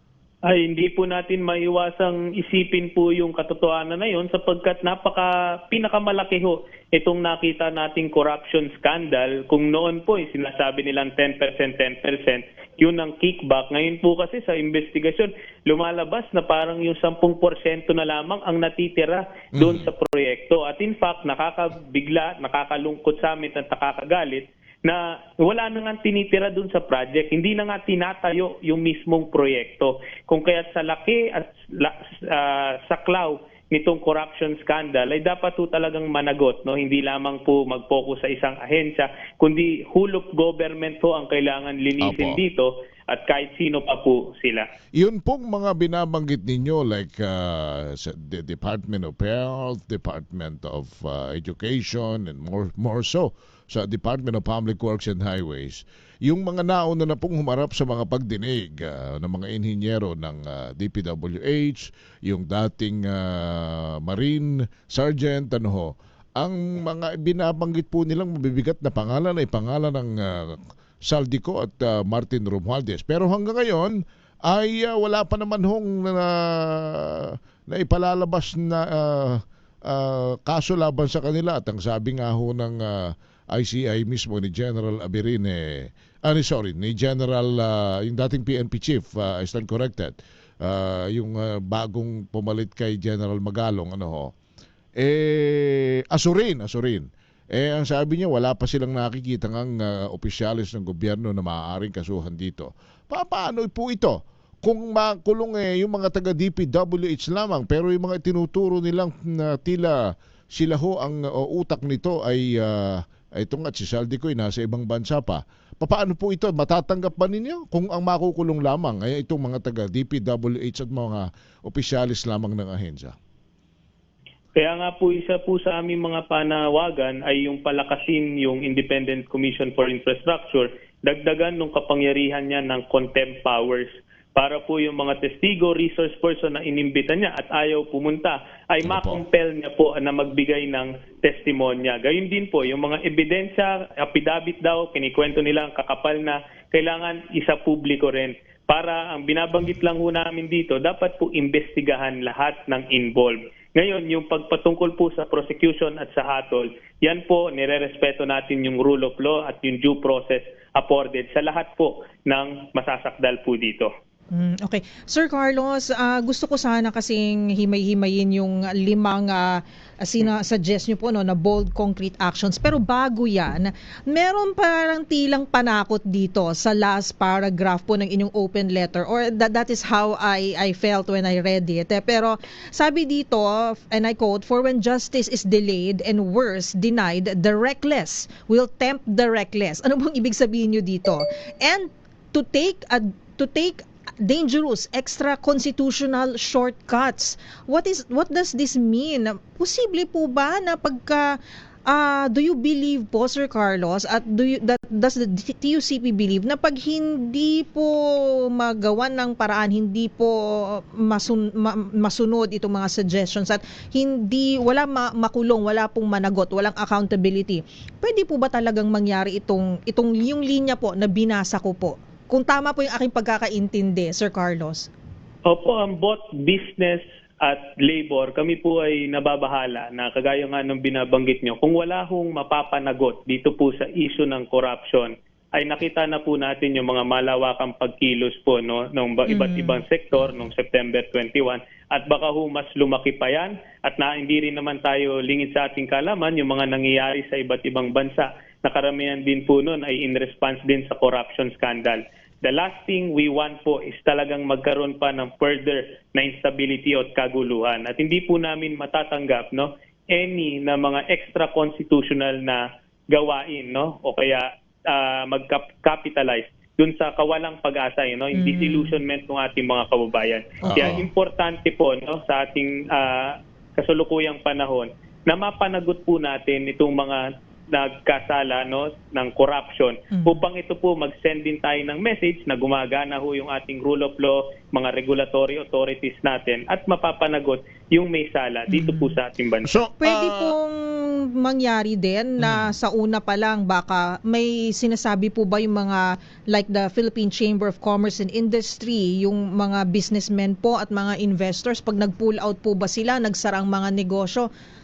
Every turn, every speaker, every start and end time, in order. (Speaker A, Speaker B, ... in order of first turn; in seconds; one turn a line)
Speaker A: 0.5-44.6
Speaker B: 19.5-19.9
Speaker B: 42.0-42.4
Speaker B: 45.0-94.3
Speaker B: 95.0-110.0
Speaker B: 110.5-123.1
Speaker A: 124.6-163.9
Speaker B: 138.8-139.2
Speaker C: 164.3-224.9
Speaker A: 225.4-289.7
Speaker C: 239.3-239.8
Speaker C: 268.3-269.0
Speaker B: 270.6-271.1
Speaker C: 280.1-280.4
Speaker C: 288.7-289.1
Speaker B: 289.6-290.5
Speaker C: 290.0-304.5
Speaker B: 292.4-292.7